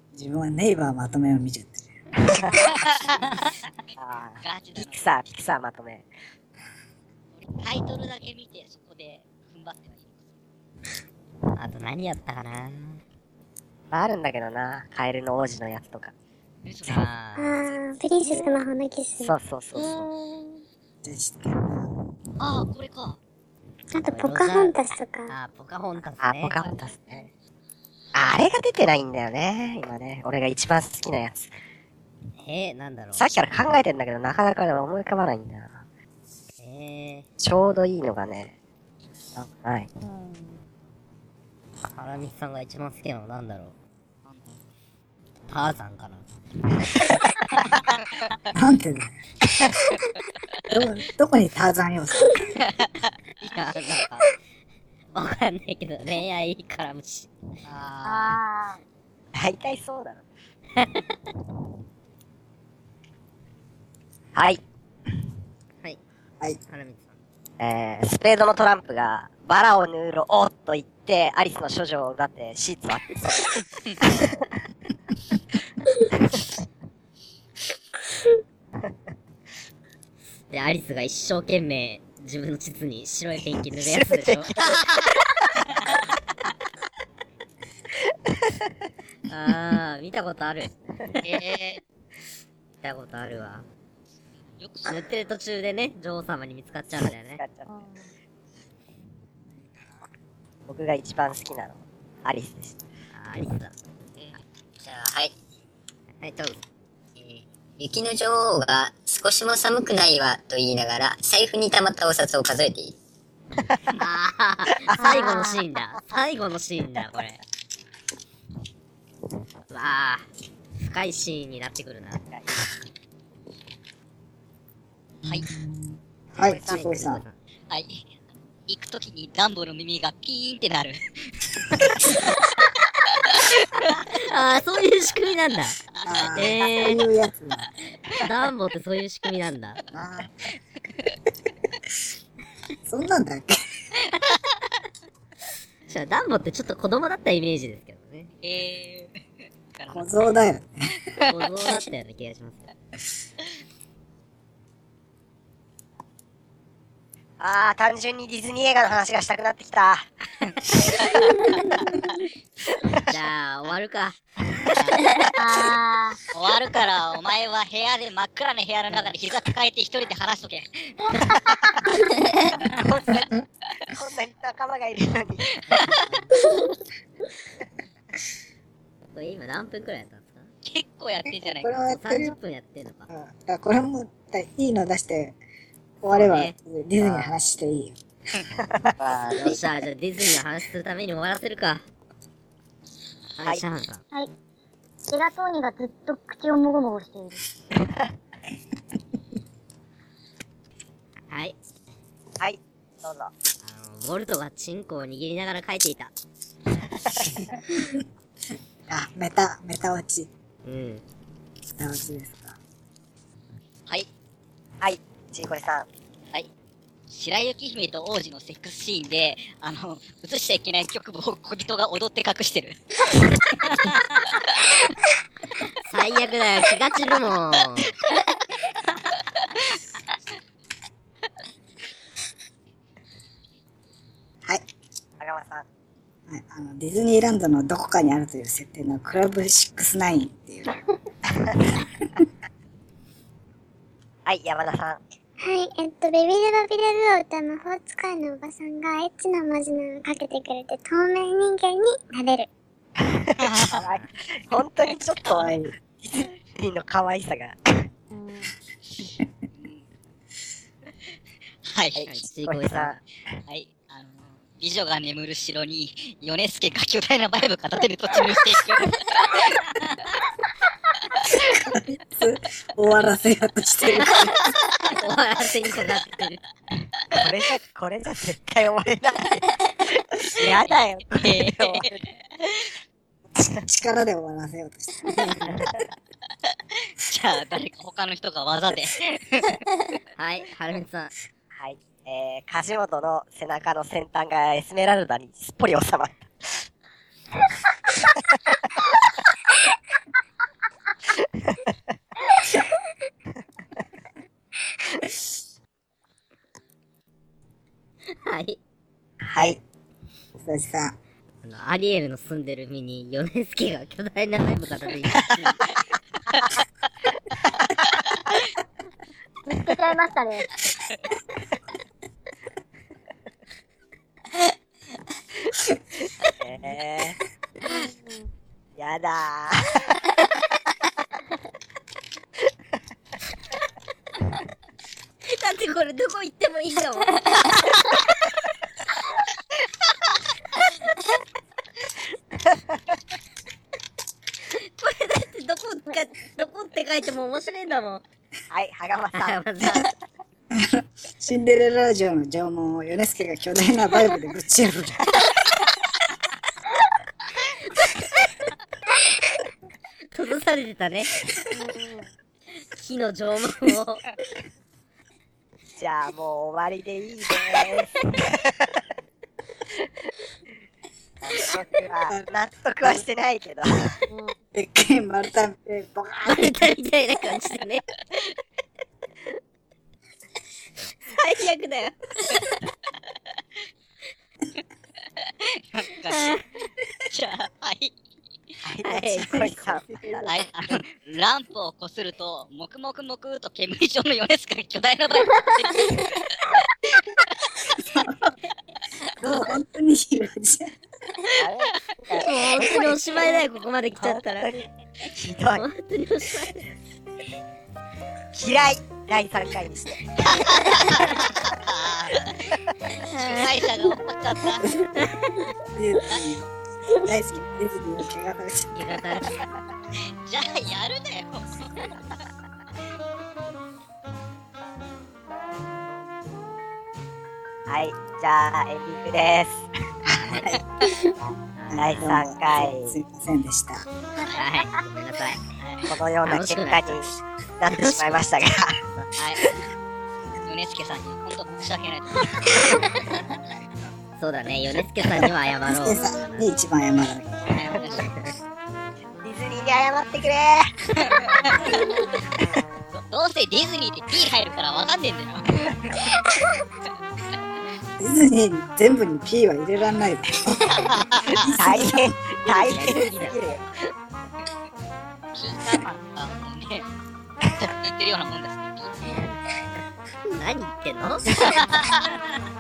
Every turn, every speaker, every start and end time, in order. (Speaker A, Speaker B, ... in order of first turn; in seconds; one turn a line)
Speaker A: 0.1-1.9
Speaker B: 2.3-2.7
Speaker C: 2.6-3.5
Speaker B: 4.0-6.1
Speaker C: 4.4-5.1
Speaker C: 7.3-10.2
Speaker D: 11.6-13.0
Speaker B: 13.9-16.1
Speaker C: 16.6-17.1
Speaker D: 16.9-17.8
Speaker E: 17.4-19.3
Speaker B: 19.2-20.1
Speaker F: 19.8-20.6
Speaker A: 21.0-21.9
Speaker C: 22.4-23.2
Speaker E: 23.9-25.3
Speaker D: 24.0-24.8
Speaker D: 25.3-26.5
Speaker B: 26.2-27.3
Speaker B: 28.1-31.5
Speaker D: 32.4-33.2
Speaker B: 33.2-35.8
Speaker D: 36.6-37.2
Speaker B: 37.4-38.5
Speaker B: 39.4-39.9
Speaker F: 40.0-40.6
Speaker D: 41.9-43.7
Speaker C: 44.2-44.5
Speaker D: 45.5-46.3
Speaker C: 47.6-48.3
Speaker A: 48.5-49.1
Speaker A: 50.7-52.4
Speaker D: 53.5-54.3
Speaker D: 55.1-57.3
Speaker C: 57.7-58.4
Speaker F: 58.0-58.8
Speaker B: 59.4-60.2
Speaker D: 60.8-61.1
Speaker D: 66.7-67.2
Speaker B: 67.6-74.3
Speaker D: 80.5-84.5
Speaker B: 83.8-84.8
Speaker D: 89.3-90.8
Speaker C: 91.2-91.8
Speaker D: 92.8-93.7
Speaker C: 94.6-95.0
Speaker D: 94.9-97.4
Speaker B: 97.0-97.7
Speaker F: 97.7-98.1
Speaker B: 100.7-102.8
Speaker D: 103.1-103.7
Speaker G: 104.8-105.3
Speaker D: 106.2-106.6
Speaker G: 107.2-113.0
Speaker D: 114.0-117.4
Speaker F: 114.9-115.6
Speaker D: 119.7-120.2
Speaker D: 120.8-122.2
Speaker B: 122.3-122.6
Speaker A: 125.3-127.2
Speaker B: 126.3-126.7
Speaker D: 126.4-127.4
Speaker C: 127.7-128.0
Speaker C: 128.7-131.2
Speaker D: 134.1-135.8
Speaker C: 136.0-136.6
Speaker A: 136.1-137.7
Speaker D: 136.3-137.0
Speaker D: 138.2-139.8
Speaker A: 139.9-140.3
Speaker A: 142.9-143.5
Speaker D: 145.9-148.3
Speaker C: 148.4-149.2
Speaker C: 149.7-150.1
Speaker A: 149.9-150.7
Speaker C: 151.2-151.8
Speaker D: 151.3-152.7
Speaker B: 157.4-160.1
Speaker C: 160.7-161.4
Speaker D: 163.1-165.0
Speaker F: 165.4-166.2
Speaker C: 166.3-171.0
Speaker B: 172.6-173.4
Speaker B: 173.9-175.6
Speaker C: 175.7-176.0
Speaker D: 179.1-180.5
Speaker C: 180.7-181.7
Speaker A: 181.3-182.4
Speaker D: 181.9-183.1
Speaker A: 183.1-185.4
Speaker A: 186.0-188.0
Speaker D: 186.1-186.5
Speaker B: 187.0-187.5
Speaker B: 188.6-189.6
Speaker D: 189.3-191.8
Speaker D: 193.3-194.0
Speaker F: 195.1-197.4
Speaker B: 197.8-198.0
Speaker D: 201.3-201.6
Speaker B: 202.4-203.3
Speaker D: 203.6-206.1
Speaker B: 207.0-207.4
Speaker A: 208.9-210.3
Speaker D: 210.7-211.0
Speaker A: 211.7-212.6
Speaker B: 214.8-215.9
Speaker C: 217.1-222.8
Speaker C: 223.6-224.5
Speaker D: 225.8-228.0
Speaker B: 235.2-235.7
Speaker A: 236.3-240.7
Speaker B: 244.3-245.0
Speaker E: 245.4-252.5
Speaker B: 253.0-257.9
Speaker C: 253.4-253.9
Speaker C: 254.8-255.5
Speaker A: 255.3-255.8
Speaker F: 258.1-258.5
Speaker C: 259.6-259.9
Speaker C: 261.6-262.1
Speaker B: 261.9-263.0
Speaker D: 262.1-262.9
Speaker C: 263.5-270.1
Speaker A: 271.3-274.5
Speaker D: 275.0-276.4
Speaker B: 277.2-282.0
Speaker C: 281.2-281.9
Speaker A: 283.5-285.7
Speaker C: 287.0-289.6
Speaker D: 290.2-291.1
Speaker B: 291.5-296.7
Speaker B: 301.4-301.7
Speaker D: 308.1-308.6
Speaker B: 309.2-309.6
Speaker A: 310.4-311.0
Speaker D: 311.4-315.2
Speaker C: 315.2-315.5
Speaker F: 319.5-320.5
Speaker B: 326.4-327.2
Speaker F: 327.7-328.2
Speaker B: 328.8-330.0
Speaker D: 335.3-337.2
Speaker D: 344.8-348.0
Speaker B: 348.5-349.9
Speaker D: 349.1-349.9
Speaker A: 350.6-355.1
Speaker D: 360.1-361.1
Speaker F: 361.5-362.1
Speaker D: 362.7-364.0
Speaker B: 365.8-368.8
Speaker B: 371.2-374.0
Speaker F: 374.1-374.4
Speaker A: 374.5-376.7
Speaker D: 376.3-377.8
Speaker D: 381.1-382.5
Speaker C: 385.2-386.3
Speaker D: 386.1-386.4
Speaker C: 387.1-387.9
Speaker B: 388.7-390.4
Speaker D: 388.8-389.7
Speaker A: 389.3-390.4
Speaker C: 390.3-397.6
Speaker A: 397.9-398.3
Speaker A: 399.2-400.7
Speaker B: 401.4-403.4
Speaker D: 402.2-404.5
Speaker B: 404.0-405.6
Speaker D: 405.6-406.7
Speaker B: 408.3-410.4
Speaker C: 410.3-412.3
Speaker C: 413.2-414.8
Speaker D: 415.0-415.4
Speaker A: 415.8-416.5
Speaker A: 417.0-419.0
Speaker D: 418.7-419.4
Speaker C: 420.3-421.7
Speaker B: 427.7-429.7
Speaker A: 430.1-430.6
Speaker D: 431.6-432.1
Speaker A: 431.7-433.9
Speaker B: 431.7-433.0
Speaker F: 434.2-434.8
Speaker D: 434.4-435.4
Speaker C: 435.6-435.9
Speaker B: 435.9-438.8
Speaker D: 436.2-437.0
Speaker D: 437.7-438.1
Speaker C: 439.2-439.5
Speaker C: 440.5-442.6
Speaker D: 444.2-446.5
Speaker A: 445.6-447.6
Speaker C: 447.5-448.1
Speaker D: 447.9-448.3
Speaker B: 449.2-450.6
Speaker C: 451.0-451.9
Speaker C: 452.9-456.1
Speaker A: 458.0-462.0
Speaker C: 460.9-461.3
Speaker B: 461.4-463.6
Speaker D: 462.5-463.4
Speaker C: 465.4-466.9
Speaker C: 467.8-469.1
Speaker D: 470.4-471.2
Speaker C: 471.5-472.4